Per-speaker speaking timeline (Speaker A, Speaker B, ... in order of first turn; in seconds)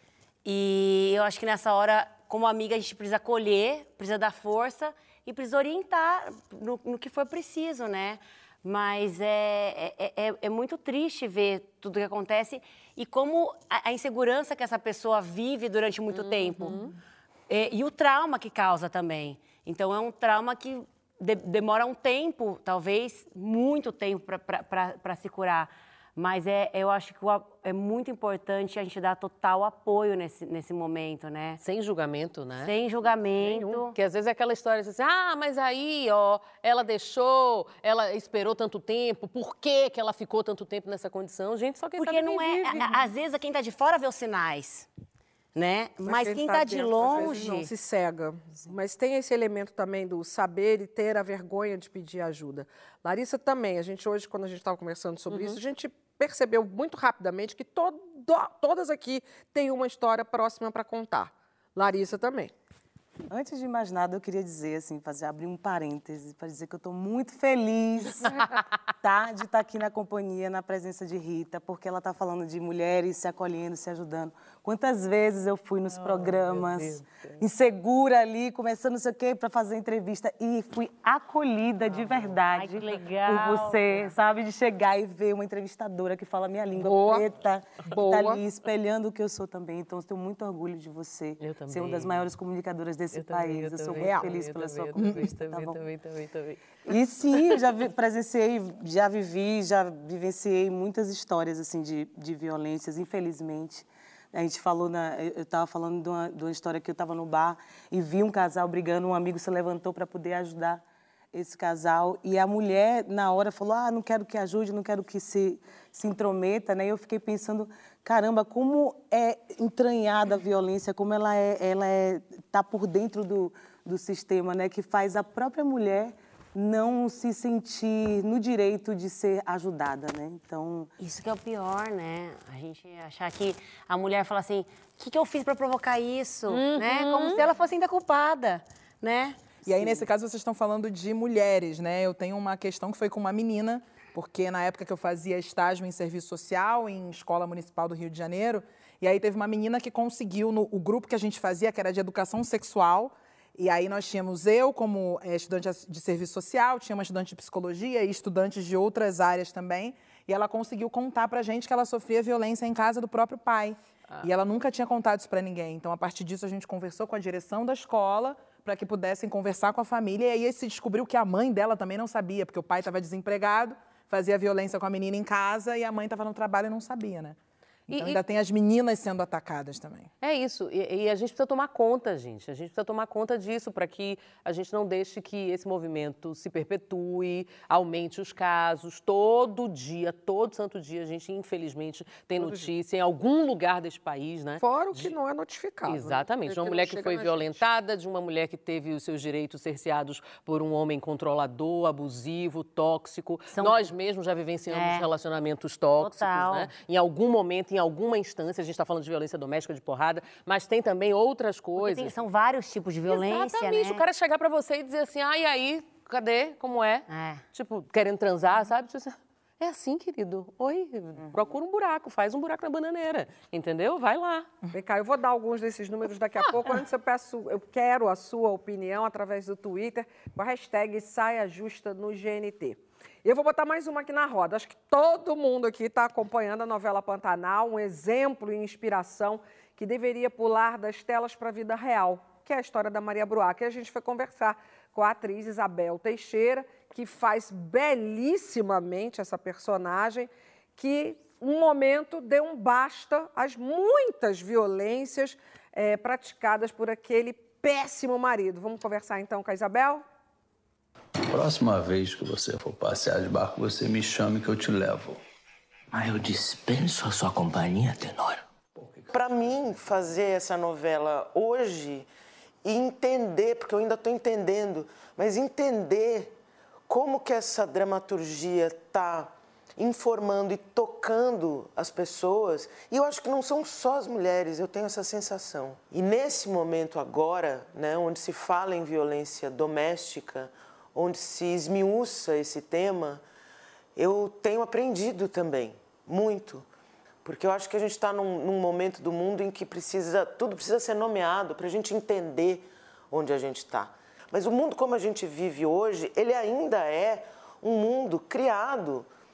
Speaker A: 0.5-16.8, 17.5-31.6, 32.6-33.9, 42.0-44.9, 45.5-47.7, 82.5-84.1, 131.0-139.4, 203.5-203.9, 204.7-205.1, 206.0-206.7, 211.8-214.0, 217.1-217.4
Speaker B: 16.1-16.9, 31.6-32.7, 33.4-43.0, 75.9-77.4, 81.9-82.3, 91.4-92.3, 93.1-96.8, 177.9-178.2, 180.2-195.1, 195.9-212.1, 213.1-224.5
Speaker C: 46.0-62.5, 86.8-87.2, 88.0-88.4, 136.5-137.4, 192.4-192.7, 194.6-197.6, 224.7-260.0
Speaker D: 63.3-68.5, 69.0-95.8, 96.9-110.8, 111.3-130.9
Speaker E: 94.0-94.3, 139.7-177.4, 177.9-180.1
Speaker F: 261.3-265.2
Speaker G: 265.9-268.4
Speaker H: 269.1-272.1, 272.6-276.3, 276.9-293.2, 294.0-296.7, 297.2-309.1